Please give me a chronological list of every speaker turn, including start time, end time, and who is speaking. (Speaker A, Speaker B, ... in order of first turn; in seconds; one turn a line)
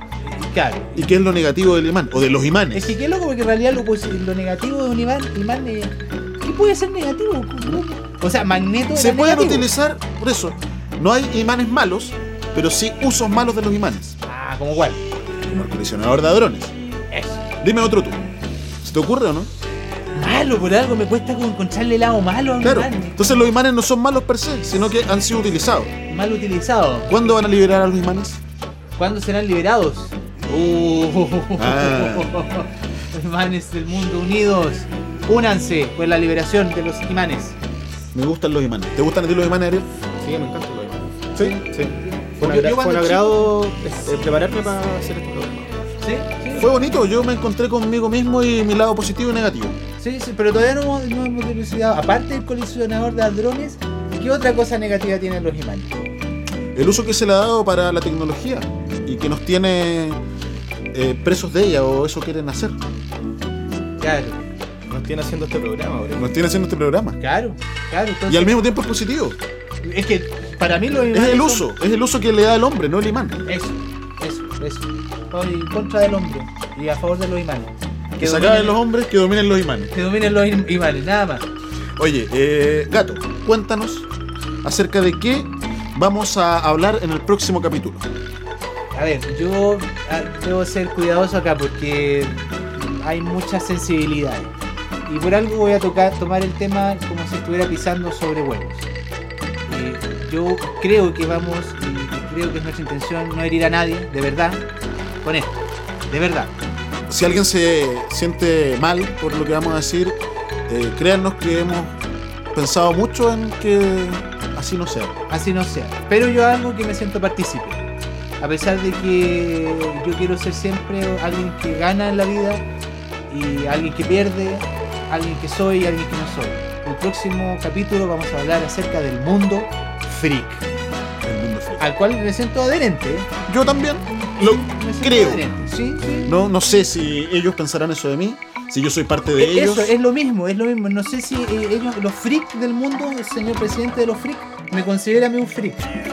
Speaker A: 0.3-0.9
Speaker B: 0.9-3.0
Speaker A: 2.7-9.7
Speaker B: 8.9-14.2
Speaker A: 14.2-15.0
Speaker B: 15.4-16.7
Speaker A: 17.1-17.4
Speaker B: 17.6-18.3
Speaker B: 18.8-19.5
Speaker A: 20.1-23.3
Speaker B: 22.6-25.9
Speaker A: 26.1-27.1
Speaker B: 27.1-28.4
Speaker A: 29.0-37.6
Speaker B: 31.6-32.4
Speaker B: 38.1-39.9
Speaker C: 40.2-45.9
Speaker A: 41.4-43.6
Speaker A: 46.0-46.7
Speaker B: 46.6-49.8
Speaker A: 50.0-56.1
Speaker B: 56.7-60.2
Speaker B: 60.9-62.8
Speaker A: 64.0-64.5
Speaker C: 64.9-66.3
Speaker B: 66.2-67.2
Speaker A: 67.2-68.6
Speaker B: 68.3-69.4
Speaker A: 69.8-71.7
Speaker B: 71.1-73.4
Speaker A: 73.5-78.8
Speaker B: 78.2-79.9
Speaker A: 79.9-81.5
Speaker B: 82.0-84.1
Speaker B: 84.6-88.1
Speaker A: 88.9-94.5
Speaker A: 95.1-98.9
Speaker A: 99.7-104.6
Speaker A: 105.2-105.5
Speaker A: 106.1-106.5
Speaker B: 107.1-112.0
Speaker B: 112.5-115.2
Speaker A: 115.3-117.8
Speaker A: 118.4-122.6
Speaker A: 123.3-130.6
Speaker B: 131.2-131.9
Speaker A: 131.8-133.3
Speaker B: 133.5-135.5
Speaker A: 134.4-136.4
Speaker B: 136.3-139.9
Speaker A: 139.4-145.9